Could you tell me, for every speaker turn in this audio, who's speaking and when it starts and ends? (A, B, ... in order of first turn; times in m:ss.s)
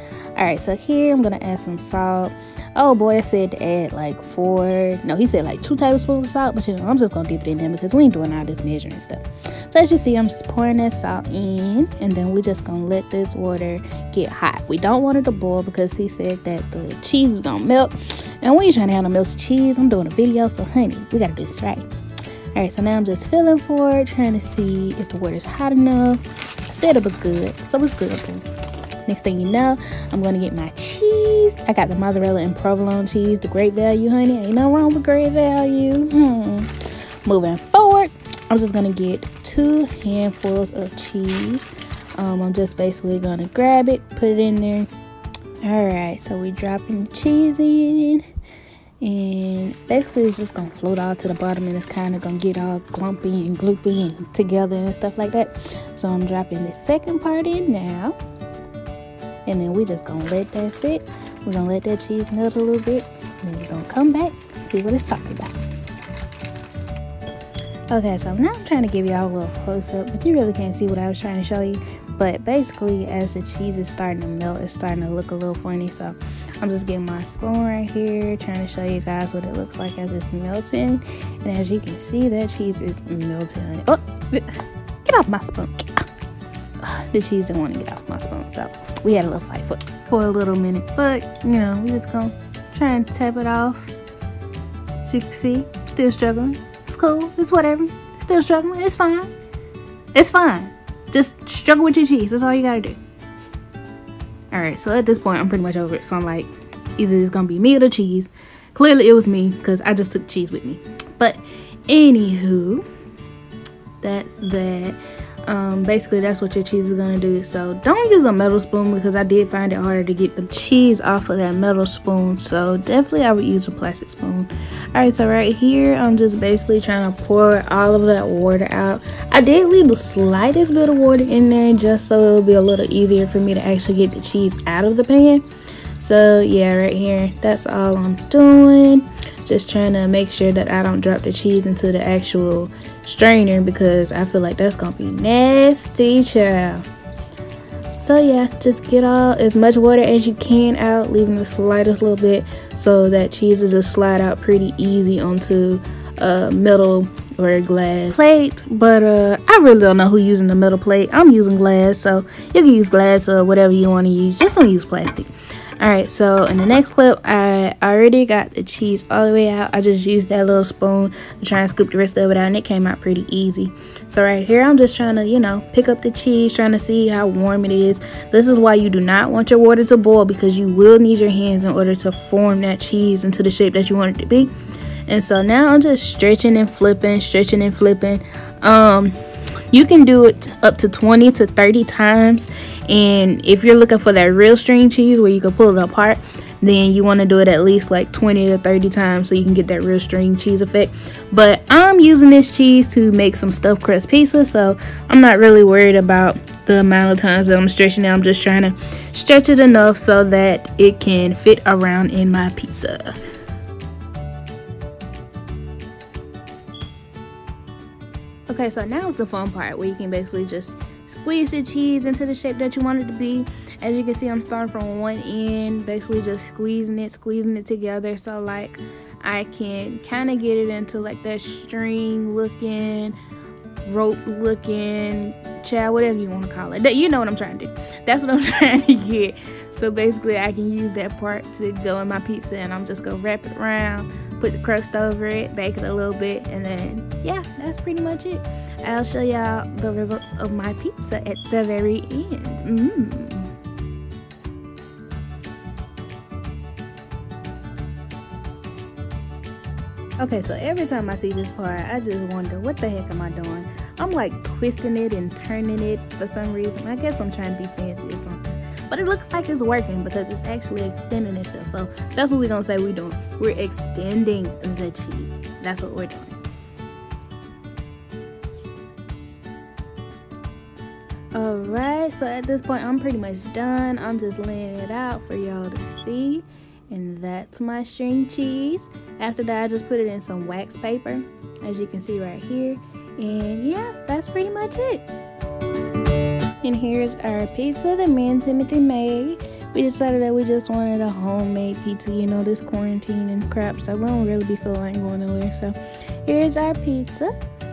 0:00.4-0:21.9 A
0:22.5-0:28.5 A
0:29.0-0:36.7 A
0:37.2-0:44.9 A
0:45.6-0:48.2 A
0:49.0-0:58.2 A
0:59.4-1:05.6 A
1:07.9-1:26.1 A
1:26.8-1:33.9 A
1:35.0-1:39.3 A
1:40.1-1:43.0 A
1:44.5-1:52.8 A
1:54.0-2:15.4 A
2:16.0-2:26.8 A
2:27.9-3:04.5 A
3:05.1-3:09.2 A
3:09.7-3:33.2 A
3:38.5-3:53.2 A
3:53.8-4:13.5 A
4:20.2-4:36.4 A
4:41.3-4:55.0 A
4:56.6-5:07.3 A